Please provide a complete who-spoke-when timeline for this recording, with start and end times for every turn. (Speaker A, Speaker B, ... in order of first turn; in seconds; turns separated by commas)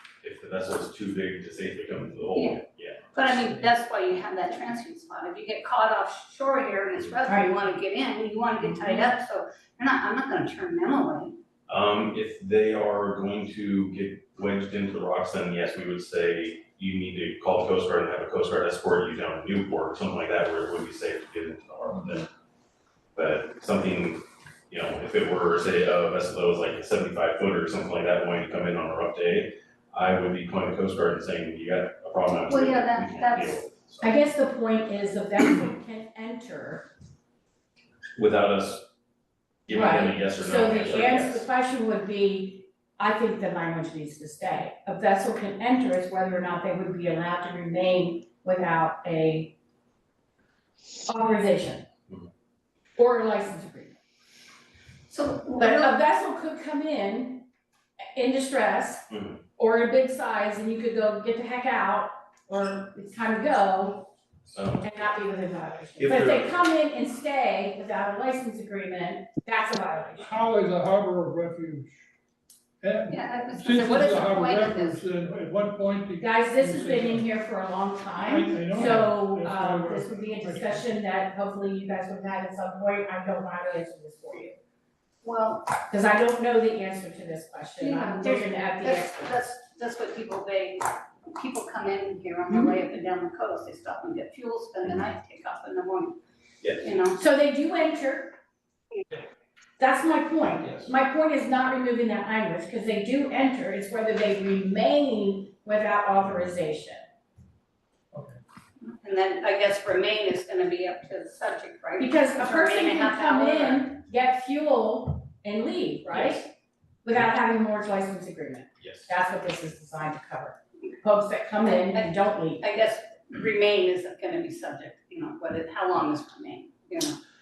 Speaker A: 0.2-3.1, Speaker B: 3.1-11.3, Speaker C: 7.3-7.5, Speaker C: 8.6-9.1, Speaker A: 11.7-22.3, Speaker A: 23.1-34.1, Speaker B: 32.5-33.6, Speaker C: 34.0-36.9, Speaker A: 38.2-38.8, Speaker A: 39.7-41.5, Speaker C: 39.7-49.5, Speaker C: 51.1-51.8, Speaker C: 53.0-54.0, Speaker B: 55.1-55.9, Speaker C: 55.6-57.5, Speaker C: 58.1-64.1, Speaker A: 59.1-59.4, Speaker A: 64.5-64.9, Speaker C: 64.8-70.3, Speaker A: 66.0-66.6, Speaker D: 70.2-72.0, Speaker D: 72.8-77.3, Speaker B: 73.1-75.0, Speaker C: 76.2-84.5, Speaker D: 78.2-80.9, Speaker B: 85.2-85.8, Speaker C: 85.8-89.3, Speaker B: 87.8-96.2, Speaker B: 96.8-97.2, Speaker C: 97.1-98.3, Speaker C: 99.8-107.0, Speaker D: 108.1-108.4, Speaker B: 108.8-113.9, Speaker C: 112.0-116.5, Speaker A: 116.1-116.5, Speaker C: 117.0-122.6, Speaker A: 118.8-119.1, Speaker B: 121.9-127.2